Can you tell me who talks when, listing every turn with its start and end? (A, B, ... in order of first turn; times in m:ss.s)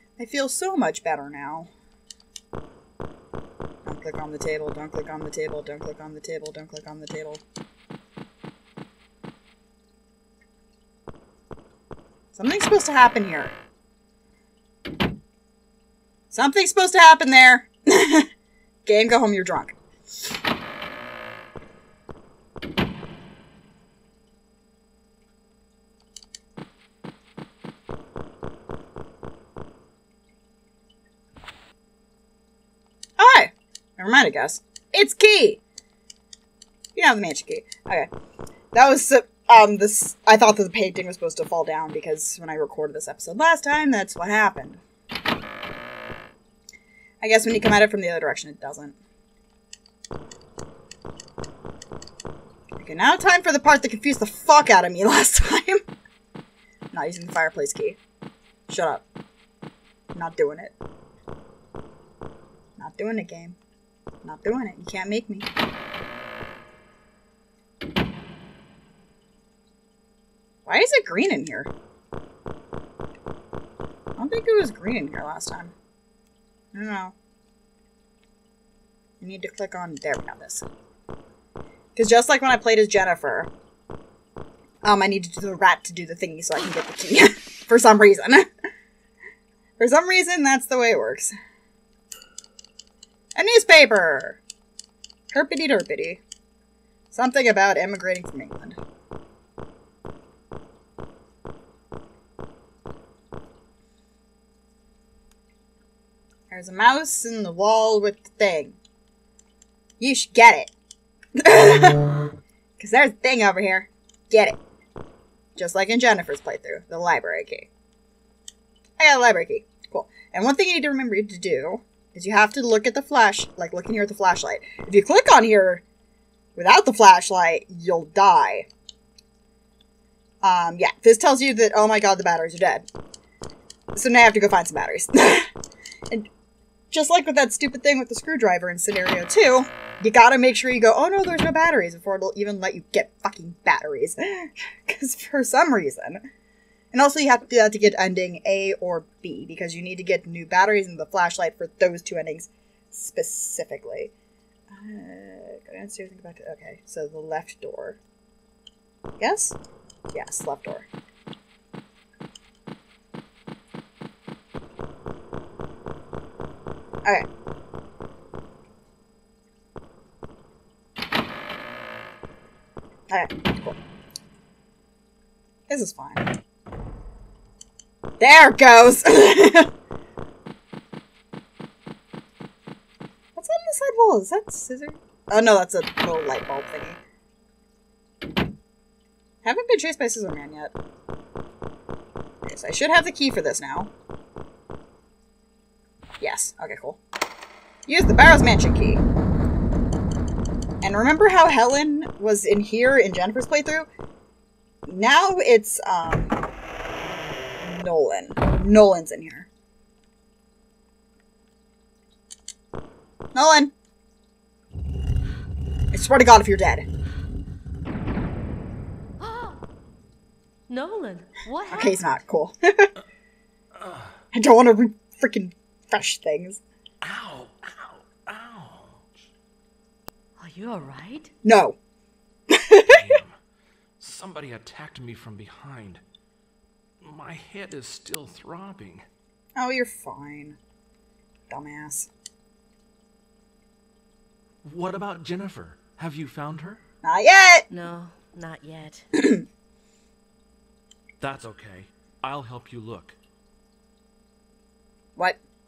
0:00.2-0:01.7 A
0:03.8-0:07.4 A
0:12.3-0:13.5 A
0:16.3-0:18.3 A
0:18.8-0:19.7 A
0:33.2-0:35.6 A
0:37.0-0:38.1 A
0:38.7-0:44.8 A
0:47.2-0:49.0 A
0:52.8-0:55.8 A
0:56.9-0:58.0 A
0:58.7-0:59.0 A
1:00.1-1:00.7 A
1:02.8-1:03.6 A
1:04.2-1:05.5 A
1:10.6-1:11.7 A
1:14.2-1:15.7 A
1:16.7-1:17.1 A
1:19.2-1:20.6 A
1:21.9-1:23.5 A
1:24.8-1:28.5 A
1:29.8-1:31.3 A
1:33.3-1:34.4 A
1:35.3-1:36.2 A
1:37.1-1:38.8 A
1:46.5-1:48.8 A
1:50.0-1:50.7 A
1:51.4-1:52.1 A
1:52.8-1:54.6 A
1:55.6-1:57.7 A
1:59.0-2:05.8 A
2:06.6-2:08.7 A
2:10.4-2:12.8 A
2:13.9-2:15.5 A
2:16.9-2:26.2 A
2:26.9-2:34.1 A
2:34.7-2:38.0 A
2:39.2-2:39.6 A
2:40.1-2:40.9 A
2:53.1-2:53.8 A
2:55.7-2:56.3 A
2:58.2-2:59.7 A
3:03.4-3:07.0 A
3:09.4-3:10.7 A
3:12.4-3:13.9 A
3:16.2-3:17.0 A
3:17.8-3:19.0 A
3:20.8-3:23.9 A
3:24.8-3:26.3 A
3:27.6-3:29.5 A
3:33.3-3:33.7 A
3:35.9-3:36.8 A
3:39.2-3:39.6 B
3:40.7-3:42.0 B
3:41.7-3:42.9 A
3:43.8-3:44.1 C
3:44.3-3:46.6 A
3:47.0-3:49.2 C
3:50.4-3:51.3 B
3:51.4-3:51.8 A
3:52.5-3:53.0 A
3:52.9-3:53.4 C
3:54.0-3:56.0 C
3:57.0-3:59.0 C
3:59.6-4:00.6 A
4:01.5-4:02.1 A
4:04.6-4:06.8 C
4:07.0-4:07.7 A
4:07.7-4:09.1 B
4:09.1-4:09.4 A
4:11.2-4:13.2 C